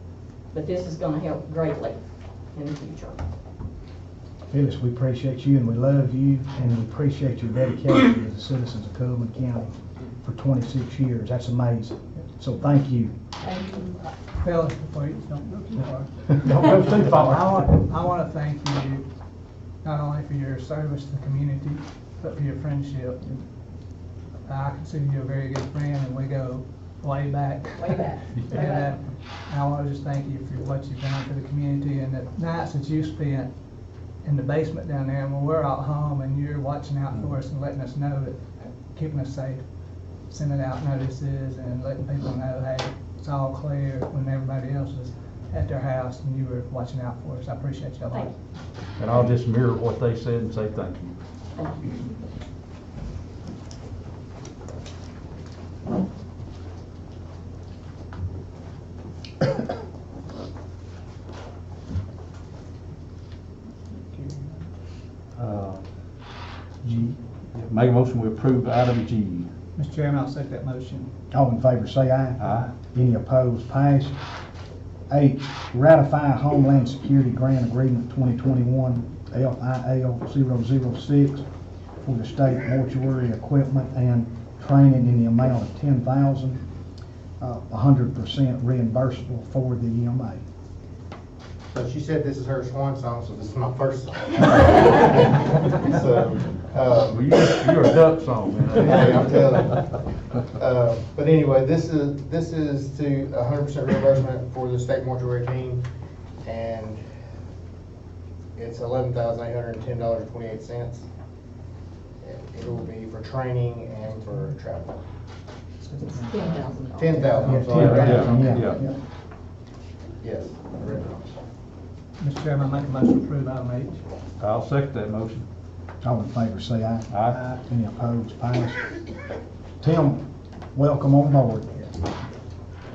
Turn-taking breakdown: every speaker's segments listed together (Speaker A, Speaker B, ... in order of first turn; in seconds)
Speaker A: 0.5-2.0, 2.5-3.2, 13.4-14.0, 27.8-28.9, 51.5-52.1, 116.0-117.5
Speaker B: 4.5-13.1, 16.4-17.4, 66.8-67.2, 71.3-74.2, 75.1-81.4, 82.0-86.6, 87.4-90.4, 117.4-118.9, 126.0-128.8, 129.8-131.9
Speaker C: 14.3-19.1, 19.8-23.4, 24.4-33.5, 34.2-39.7, 40.2-48.3, 63.9-64.4, 69.8-71.1, 72.4-72.7, 115.8-116.7, 117.4-117.9, 122.2-124.0
Speaker D: 49.0-51.1, 65.3-65.8, 67.5-69.5, 72.4-72.7, 97.0-99.8, 117.7-118.8, 124.4-125.5, 127.1-127.4
Speaker E: 91.7-97.3, 98.7-105.8, 106.4-107.0, 108.5-111.0, 112.2-115.0, 117.0-118.6, 120.2-121.3